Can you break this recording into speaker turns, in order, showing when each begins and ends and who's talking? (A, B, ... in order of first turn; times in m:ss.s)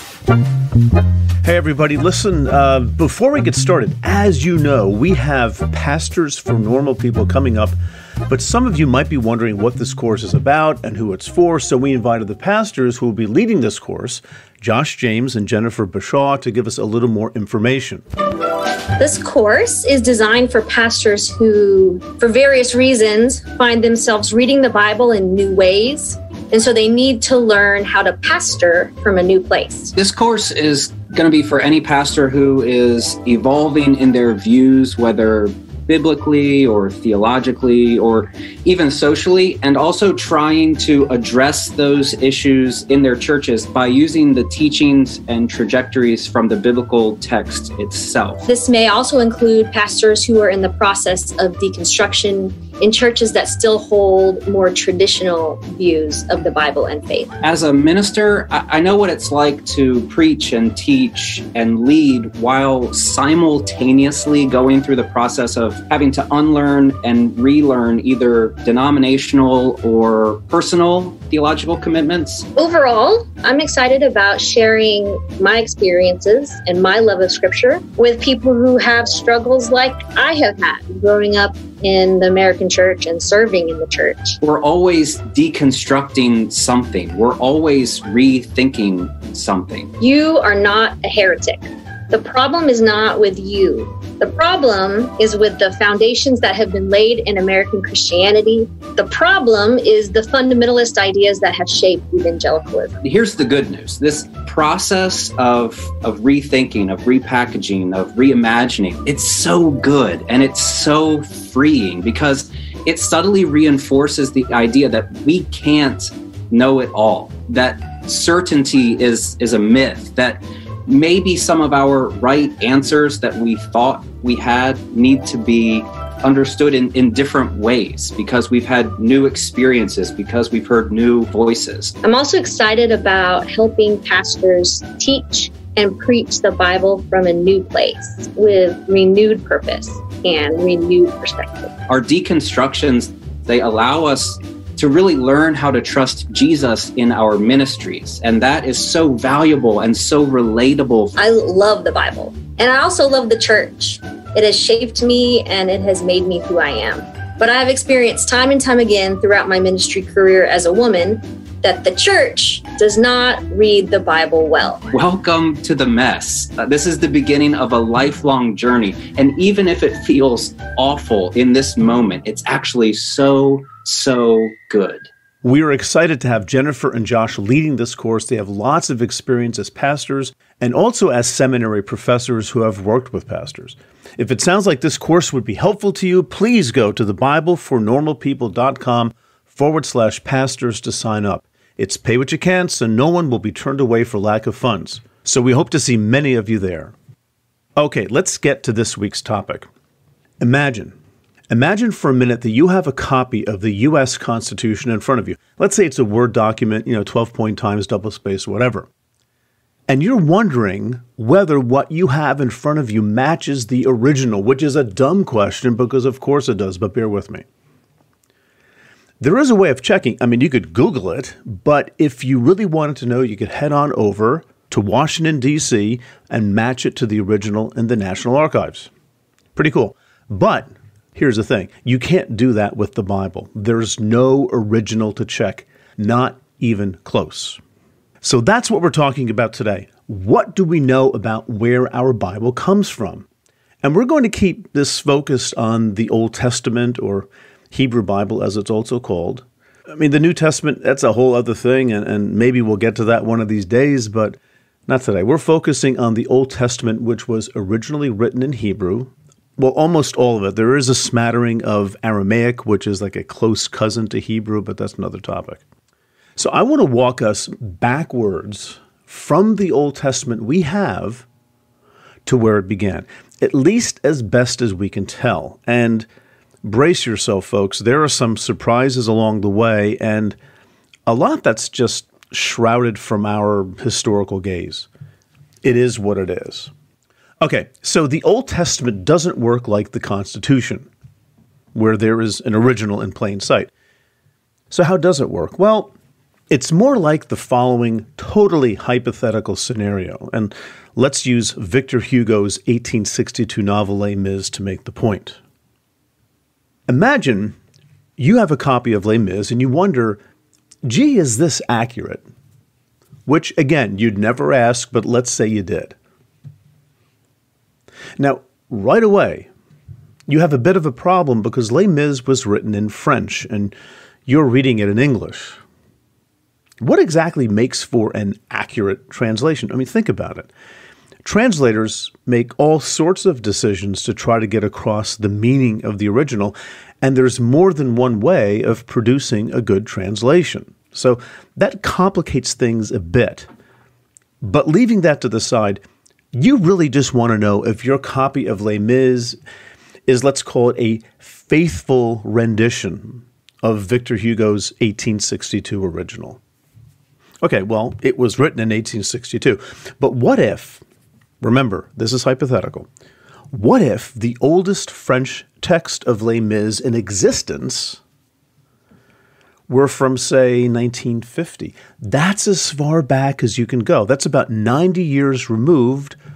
0:01.4-0:07.8 A
0:08.3-0:18.0 A
0:19.0-0:29.9 B
0:30.0-0:48.4 C
0:48.5-0:57.3 B
0:57.4-1:12.5 C
1:12.6-1:24.4 B
1:24.4-1:29.9 C
1:30.0-1:43.0 B
1:43.0-2:11.9 C
2:12.0-2:21.7 B
2:21.9-2:31.2 C
2:31.2-2:44.8 B
2:44.9-2:55.1 C
2:55.4-3:16.9 A
3:17.8-3:19.7 A
3:20.4-3:21.0 A
3:21.5-3:28.9 A
3:29.9-3:37.4 A
3:39.2-3:48.9 A
3:49.6-3:57.6 A
3:58.2-4:03.3 A
4:03.8-4:25.6 A
4:26.4-4:31.3 A
4:32.3-4:36.1 A
4:36.6-4:40.4 A
4:41.1-4:44.9 A
4:45.6-4:46.7 A
4:47.4-4:50.9 A
4:51.7-4:53.7 A
4:54.7-4:55.9 A
4:56.5-5:05.4 A
5:06.9-5:07.6 A
5:08.2-5:10.2 A
5:10.8-5:12.3 A
5:13.3-5:16.0 A
5:18.2-5:19.5 A
5:20.3-5:23.8 A
5:24.3-5:25.6 A
5:26.8-5:30.5 A
5:31.2-5:43.5 A
5:44.4-5:45.8 A
5:46.3-5:49.4 A
5:50.1-5:56.4 A
5:57.4-6:00.8 A
6:01.4-6:02.9 A
6:03.5-6:08.0 A
6:09.7-6:16.2 A